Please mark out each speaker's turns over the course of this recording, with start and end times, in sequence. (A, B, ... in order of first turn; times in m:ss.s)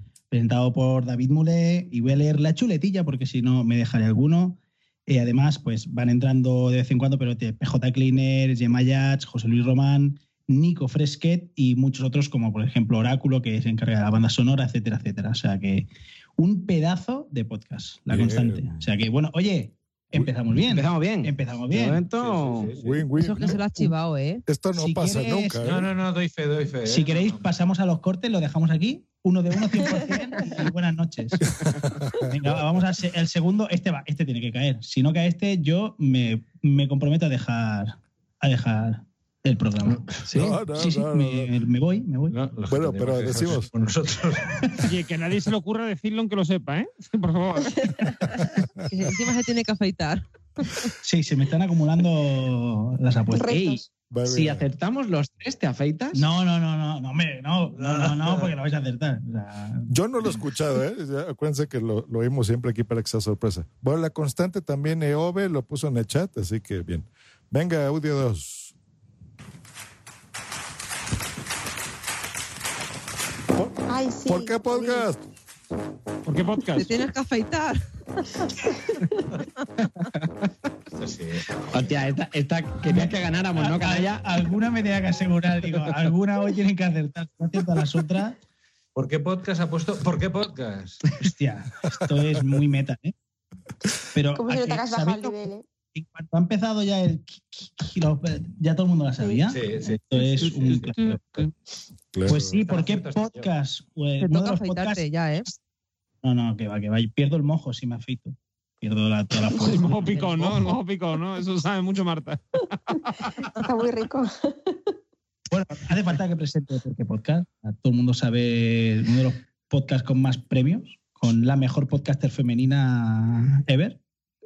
0:00.3-0:22.0 A
0:18.1-0:18.8 B
0:20.7-0:22.7 C
0:22.2-0:23.1 D
0:22.8-0:23.9 B
0:23.2-0:24.4 E
0:24.5-0:25.9 B
0:24.8-0:25.6 A
0:25.6-0:27.5 D
0:26.9-0:31.4 A
0:31.7-0:32.3 B
0:32.3-0:42.4 A
0:40.3-0:41.5 B
0:42.3-0:44.8 D
0:42.7-0:43.7 B
0:44.9-0:47.9 F
0:48.4-0:48.7 B
0:48.9-0:50.8 E
0:51.0-0:53.6 A
0:53.3-0:53.8 G
0:53.5-0:56.2 C
0:54.1-0:54.7 B
0:56.1-0:59.9 A
0:57.8-0:58.5 D
0:59.9-1:08.7 B
1:13.5-1:15.2 B
1:13.9-1:15.1 G
1:16.2-1:17.0 F
1:16.8-1:17.8 E
1:20.0-1:20.2 C
1:21.0-1:21.5 D
1:21.7-1:24.2 C
1:22.9-1:28.4 A
1:29.0-1:31.0 D
1:31.2-1:33.1 A
1:34.1-1:35.4 A
1:34.3-1:35.7 G
1:35.9-1:41.5 A
1:39.5-1:41.0 D
1:42.1-1:42.6 B
1:42.3-1:45.5 A
1:42.3-1:43.5 D
1:44.2-1:45.5 E
1:46.2-1:50.6 A
1:49.5-1:52.4 F
1:50.0-1:50.4 E
1:53.6-1:54.8 G
1:55.5-2:04.0 A